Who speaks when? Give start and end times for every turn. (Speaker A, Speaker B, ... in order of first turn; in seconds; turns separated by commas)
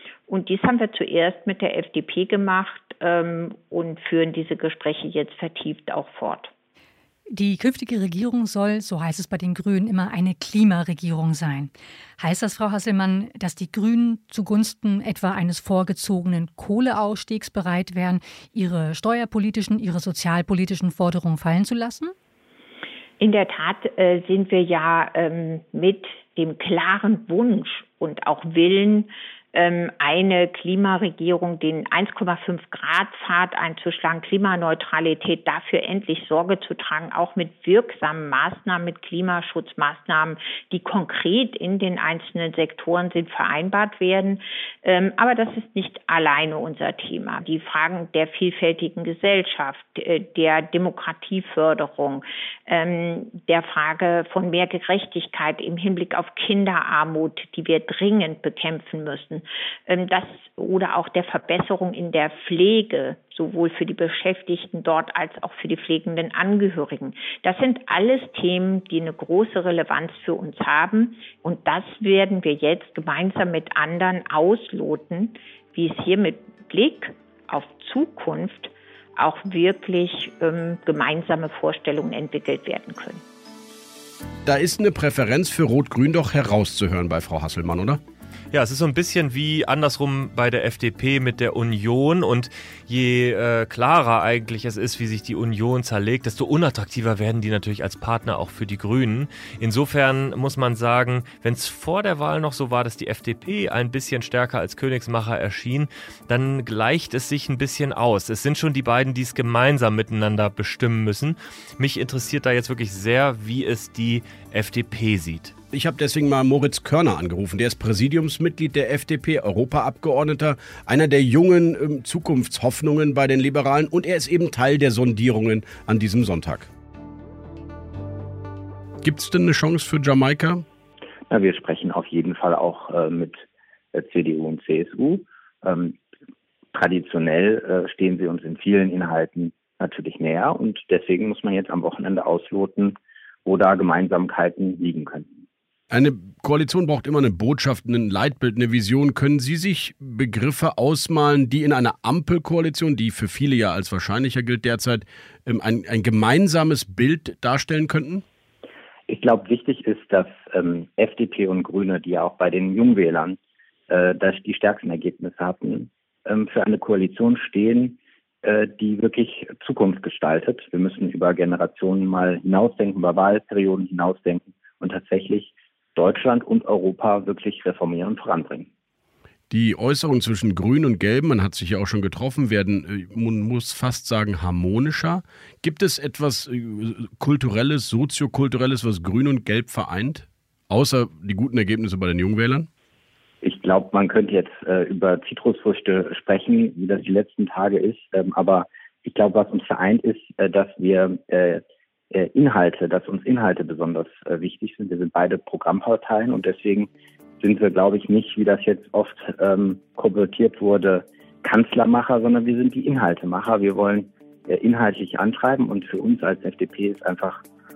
Speaker A: 0.3-6.5, Speaker B: 7.3-22.1, Speaker A: 23.2-83.2, Speaker C: 84.5-88.0, Speaker D: 88.5-115.5, Speaker C: 115.7-126.7, Speaker C: 129.0-130.6, Speaker E: 131.3-136.0, Speaker E: 136.7-145.4, Speaker C: 145.9-158.2, Speaker E: 159.1-163.4, Speaker E: 163.9-178.7, Speaker C: 179.5-192.7, Speaker E: 193.4-217.4